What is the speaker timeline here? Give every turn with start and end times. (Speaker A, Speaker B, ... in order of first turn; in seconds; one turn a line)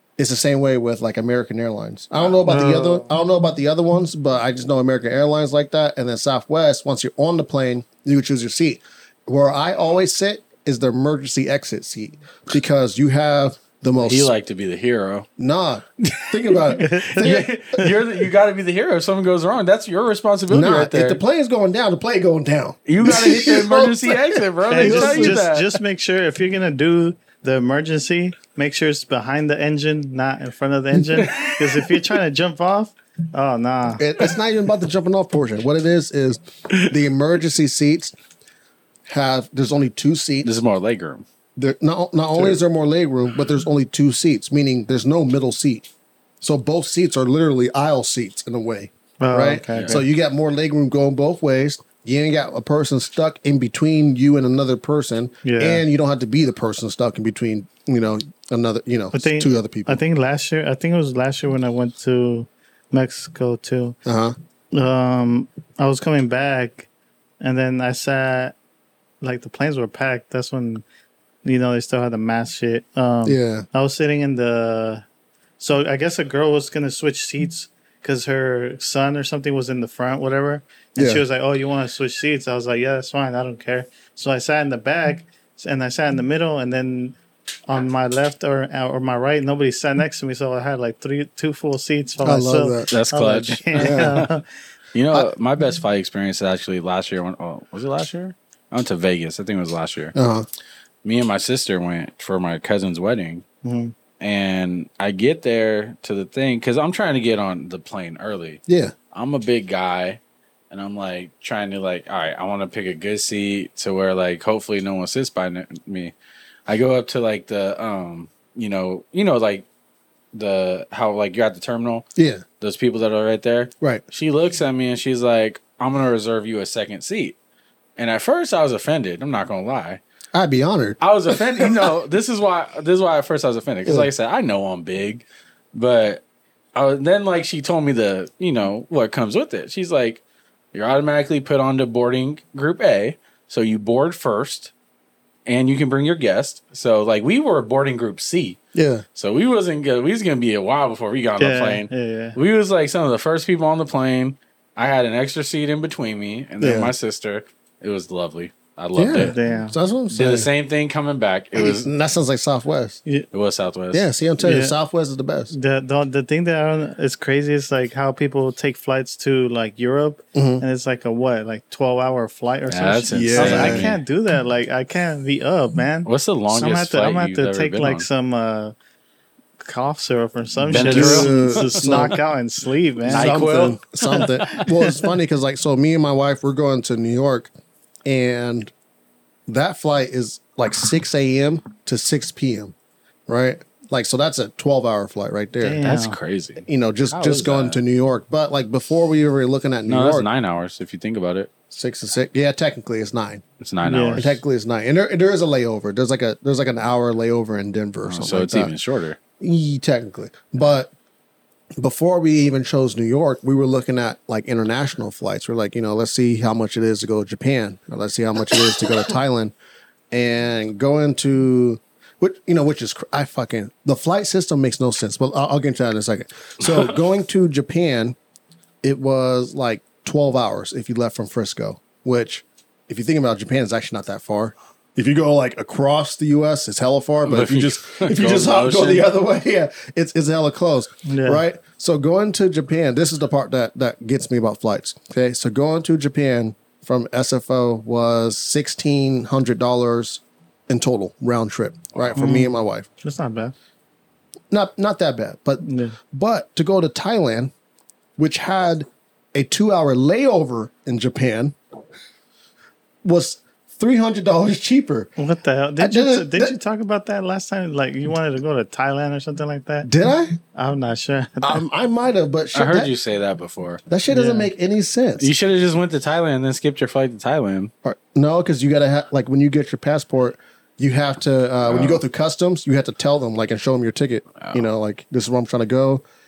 Speaker A: 0.2-14.3
Speaker B: 2.5-3.0
Speaker C: 14.0-15.3
Speaker A: 15.4-17.4
Speaker C: 16.1-21.2
Speaker B: 16.7-17.9
Speaker A: 20.5-25.4
Speaker C: 22.9-25.8
Speaker B: 24.7-34.0
Speaker C: 31.1-31.9
Speaker A: 34.0-38.1
Speaker A: 39.1-40.5
Speaker C: 40.4-41.2
Speaker A: 41.5-45.9
Speaker A: 46.4-60.0
Speaker B: 49.2-50.0
Speaker C: 49.7-50.0
Speaker B: 55.4-55.8
Speaker B: 59.1-64.0
Speaker A: 64.0-64.3
Speaker B: 64.7-66.9
Speaker B: 67.4-68.5
Speaker B: 69.2-70.8
Speaker B: 71.4-75.0
Speaker A: 73.2-73.6
Speaker B: 75.6-87.2
Speaker A: 81.0-81.2
Speaker B: 87.7-94.4
Speaker A: 92.2-92.9
Speaker C: 92.9-94.3
Speaker A: 93.8-94.2
Speaker C: 94.9-100.1
Speaker A: 100.1-100.5
Speaker C: 101.0-103.4
Speaker B: 103.6-103.9
Speaker C: 104.2-108.6
Speaker A: 108.7-108.9
Speaker C: 109.1-110.2
Speaker C: 110.7-116.1
Speaker C: 116.7-119.7
Speaker C: 120.3-122.0
Speaker A: 122.2-122.4
Speaker C: 122.6-127.3
Speaker C: 128.0-130.0
Speaker A: 130.3-131.9
Speaker C: 131.0-136.2
Speaker C: 136.7-140.2
Speaker C: 140.7-144.7
Speaker C: 145.4-148.6
Speaker A: 148.7-149.0
Speaker C: 149.2-159.3
Speaker B: 151.4-152.4
Speaker A: 156.6-156.9
Speaker A: 158.9-160.5
Speaker B: 159.1-159.7
Speaker C: 160.1-161.9
Speaker A: 161.5-163.0
Speaker C: 163.3-164.1
Speaker A: 163.9-165.5
Speaker B: 164.4-164.7
Speaker B: 165.5-178.7
Speaker A: 170.3-170.6
Speaker C: 172.7-174.0
Speaker A: 173.1-173.9
Speaker C: 176.0-178.1
Speaker B: 179.6-183.4
Speaker C: 180.7-182.1
Speaker A: 180.7-182.2
Speaker A: 183.1-187.5
Speaker C: 183.1-184.7
Speaker B: 184.2-184.7
Speaker A: 188.1-188.7
Speaker A: 189.5-192.7
Speaker A: 193.3-195.8
Speaker B: 195.6-196.2
Speaker C: 195.8-197.8
Speaker A: 196.7-200.3
Speaker C: 199.9-201.5
Speaker A: 201.7-203.4
Speaker C: 203.6-204.4
Speaker B: 203.8-204.2
Speaker A: 204.1-208.7
Speaker C: 208.1-209.2
Speaker A: 209.4-210.9
Speaker A: 211.8-219.5
Speaker A: 220.1-228.2
Speaker A: 228.8-252.8
Speaker C: 237.3-239.1
Speaker B: 241.1-241.4
Speaker B: 252.2-253.5
Speaker A: 254.5-257.5
Speaker B: 255.6-255.9
Speaker A: 258.2-261.5
Speaker A: 263.0-265.1
Speaker B: 265.2-269.9
Speaker A: 265.8-266.5
Speaker A: 269.8-270.4
Speaker B: 270.5-271.6
Speaker A: 271.4-272.9
Speaker C: 272.5-273.8
Speaker A: 273.9-275.3
Speaker B: 274.1-274.5
Speaker C: 275.2-277.7
Speaker A: 277.8-286.0
Speaker C: 281.7-282.0